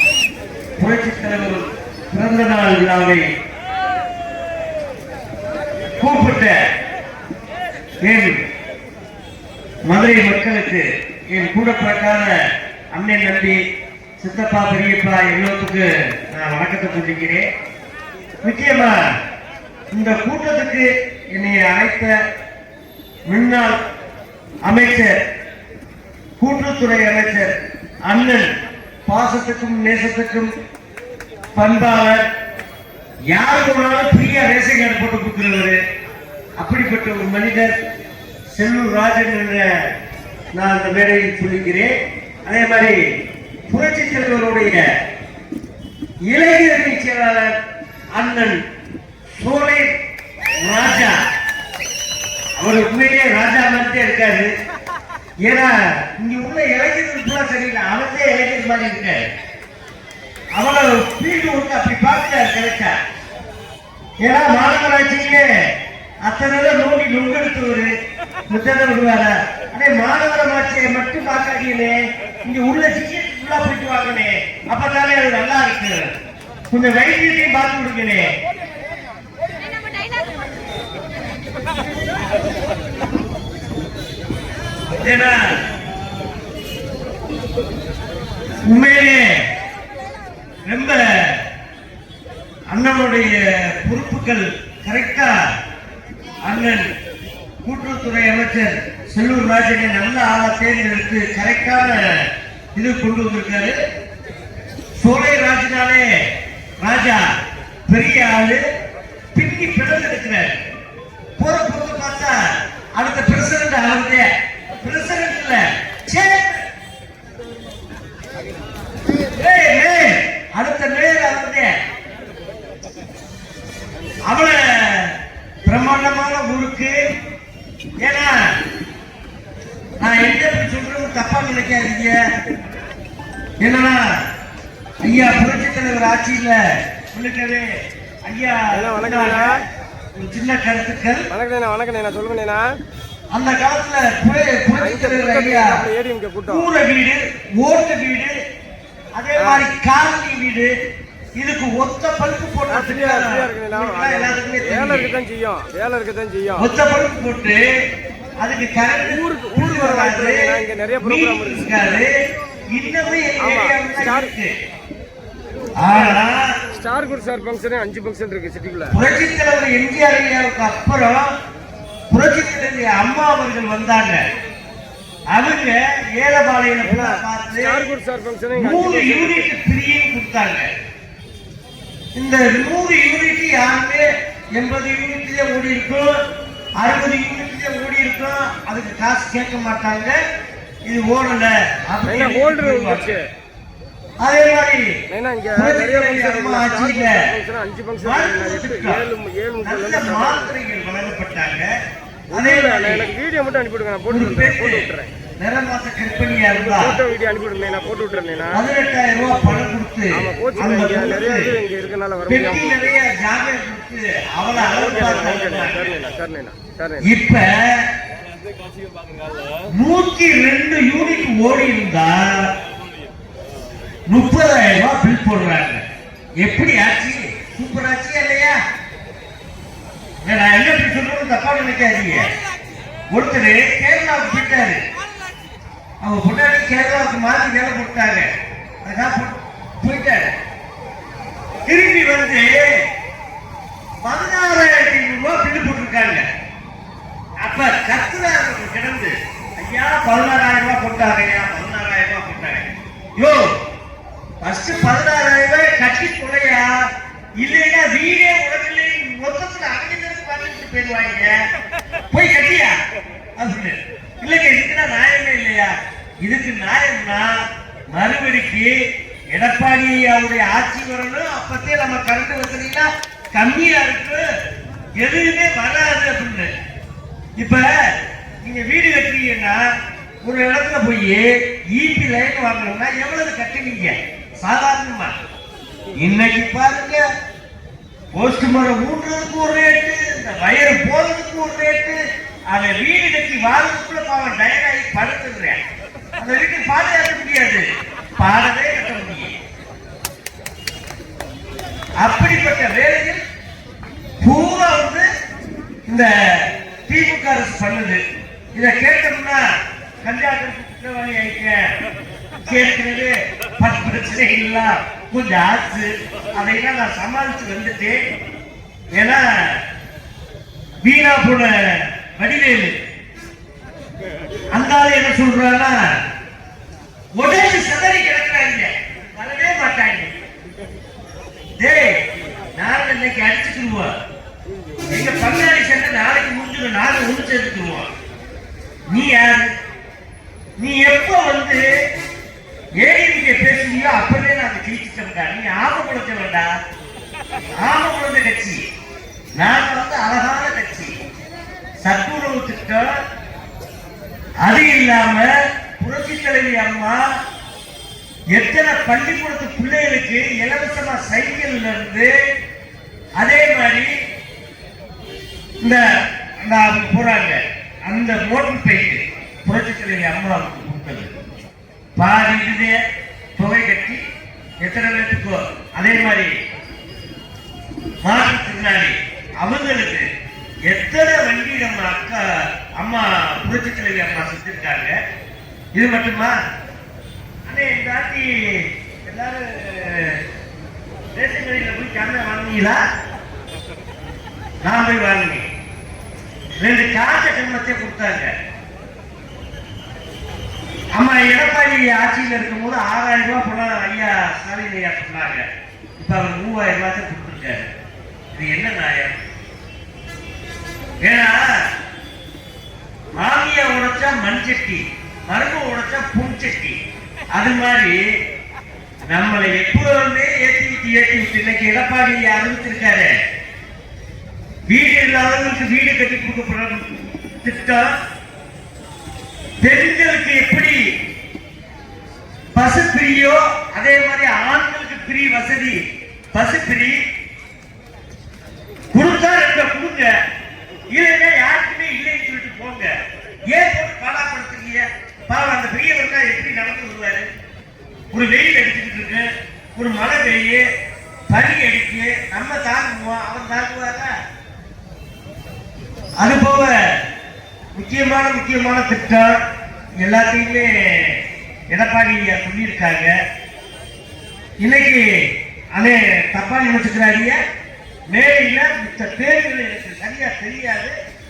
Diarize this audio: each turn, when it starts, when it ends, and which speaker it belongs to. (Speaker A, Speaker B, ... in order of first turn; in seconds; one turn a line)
Speaker A: 0.8-3.2
Speaker A: 6.0-6.6
Speaker A: 8.0-8.4
Speaker A: 9.9-12.3
Speaker A: 12.9-13.6
Speaker A: 14.2-17.5
Speaker A: 18.4-19.0
Speaker A: 19.9-22.1
Speaker A: 23.3-23.8
Speaker A: 24.6-25.2
Speaker A: 26.4-28.5
Speaker A: 29.1-30.5
Speaker A: 31.6-32.3
Speaker A: 33.3-35.8
Speaker A: 36.6-37.7
Speaker A: 38.5-39.9
Speaker A: 40.5-42.0
Speaker A: 42.5-43.0
Speaker A: 43.7-44.9
Speaker A: 46.3-47.6
Speaker A: 48.2-48.6
Speaker A: 49.4-49.9
Speaker A: 50.6-51.2
Speaker A: 52.6-54.5
Speaker A: 55.5-59.2
Speaker A: 60.6-63.0
Speaker A: 64.2-65.5
Speaker A: 66.2-67.9
Speaker A: 68.5-76.1
Speaker A: 76.7-78.3
Speaker A: 85.0-85.5
Speaker A: 88.6-89.4
Speaker A: 90.7-91.4
Speaker A: 92.7-95.4
Speaker A: 96.5-96.9
Speaker A: 97.6-103.8
Speaker A: 105.0-106.1
Speaker A: 106.8-107.3
Speaker A: 107.9-108.6
Speaker A: 109.3-110.6
Speaker A: 111.4-114.3
Speaker A: 114.8-116.6
Speaker A: 119.3-121.7
Speaker A: 124.3-127.0
Speaker A: 128.0-128.4
Speaker A: 130.0-132.2
Speaker A: 133.6-134.2
Speaker A: 135.0-136.6
Speaker A: 137.1-137.7
Speaker A: 138.3-139.6
Speaker B: 138.7-139.6
Speaker A: 140.2-141.3
Speaker B: 141.3-142.8
Speaker A: 143.3-145.8
Speaker B: 144.8-146.7
Speaker A: 146.4-148.3
Speaker A: 149.2-150.7
Speaker B: 149.4-149.7
Speaker A: 151.4-155.1
Speaker B: 152.7-156.7
Speaker A: 156.6-157.7
Speaker A: 158.4-162.1
Speaker B: 159.1-162.1
Speaker A: 162.7-164.5
Speaker B: 163.4-164.3
Speaker A: 165.8-166.6
Speaker B: 165.9-169.0
Speaker A: 168.9-171.3
Speaker A: 172.1-174.2
Speaker A: 175.3-177.8
Speaker B: 176.8-179.5
Speaker A: 178.6-180.7
Speaker A: 182.2-186.2
Speaker A: 186.8-190.2
Speaker A: 190.9-193.2
Speaker B: 192.1-193.2
Speaker A: 194.2-197.3
Speaker B: 195.1-200.5
Speaker A: 198.0-199.1
Speaker A: 199.6-201.7
Speaker A: 202.3-203.1
Speaker B: 202.3-205.1
Speaker A: 204.1-207.0
Speaker B: 206.5-208.6
Speaker A: 208.5-211.6
Speaker B: 210.1-212.8
Speaker A: 212.3-216.0
Speaker B: 214.6-217.1
Speaker A: 217.0-217.9
Speaker A: 219.7-222.5
Speaker A: 224.1-225.8
Speaker A: 226.4-228.6
Speaker A: 230.2-232.3
Speaker A: 233.1-234.8
Speaker A: 236.0-238.3
Speaker A: 238.8-240.3
Speaker A: 241.7-242.8
Speaker A: 244.0-246.2
Speaker A: 247.4-253.5
Speaker A: 254.4-256.8
Speaker A: 257.4-261.4
Speaker A: 262.1-262.8
Speaker A: 263.4-267.4
Speaker A: 267.9-268.7
Speaker A: 269.3-274.2
Speaker A: 275.0-276.5
Speaker A: 277.4-279.6
Speaker A: 280.2-285.1
Speaker A: 285.9-287.0
Speaker A: 288.1-295.6
Speaker A: 296.2-299.4
Speaker A: 302.0-303.2
Speaker A: 304.2-305.1
Speaker A: 305.9-308.0
Speaker A: 308.6-309.5
Speaker A: 310.0-311.6
Speaker A: 312.4-318.0
Speaker A: 319.0-319.6
Speaker A: 320.8-322.8
Speaker A: 324.5-325.9
Speaker A: 327.2-330.2
Speaker A: 331.6-332.0
Speaker A: 332.5-333.9
Speaker A: 334.9-337.9
Speaker A: 338.9-339.5
Speaker A: 340.6-341.6
Speaker A: 342.8-346.5
Speaker A: 347.6-348.6
Speaker A: 349.4-350.9
Speaker A: 351.8-353.0
Speaker A: 354.4-357.1
Speaker A: 358.3-362.1
Speaker A: 363.2-363.9
Speaker A: 366.4-371.1
Speaker A: 372.0-372.8
Speaker A: 373.4-374.0
Speaker A: 374.6-376.3
Speaker A: 378.1-380.1
Speaker A: 380.7-385.0
Speaker A: 385.8-386.4
Speaker A: 387.5-390.2
Speaker A: 391.1-392.8
Speaker A: 394.6-395.4
Speaker A: 396.6-398.3
Speaker A: 400.9-405.5
Speaker A: 406.0-407.7
Speaker A: 408.3-409.2
Speaker A: 411.0-411.4
Speaker A: 413.2-416.8
Speaker A: 417.4-418.0
Speaker A: 419.1-423.1
Speaker A: 424.7-427.9
Speaker A: 429.6-430.8
Speaker A: 432.6-435.8
Speaker A: 436.3-437.0
Speaker A: 438.9-440.1
Speaker A: 440.9-442.9
Speaker A: 443.5-447.3
Speaker A: 448.1-450.6
Speaker A: 451.3-454.1
Speaker A: 456.2-456.8
Speaker A: 457.8-459.4
Speaker A: 460.0-463.1
Speaker A: 464.6-465.0
Speaker A: 465.8-467.4
Speaker A: 468.1-471.0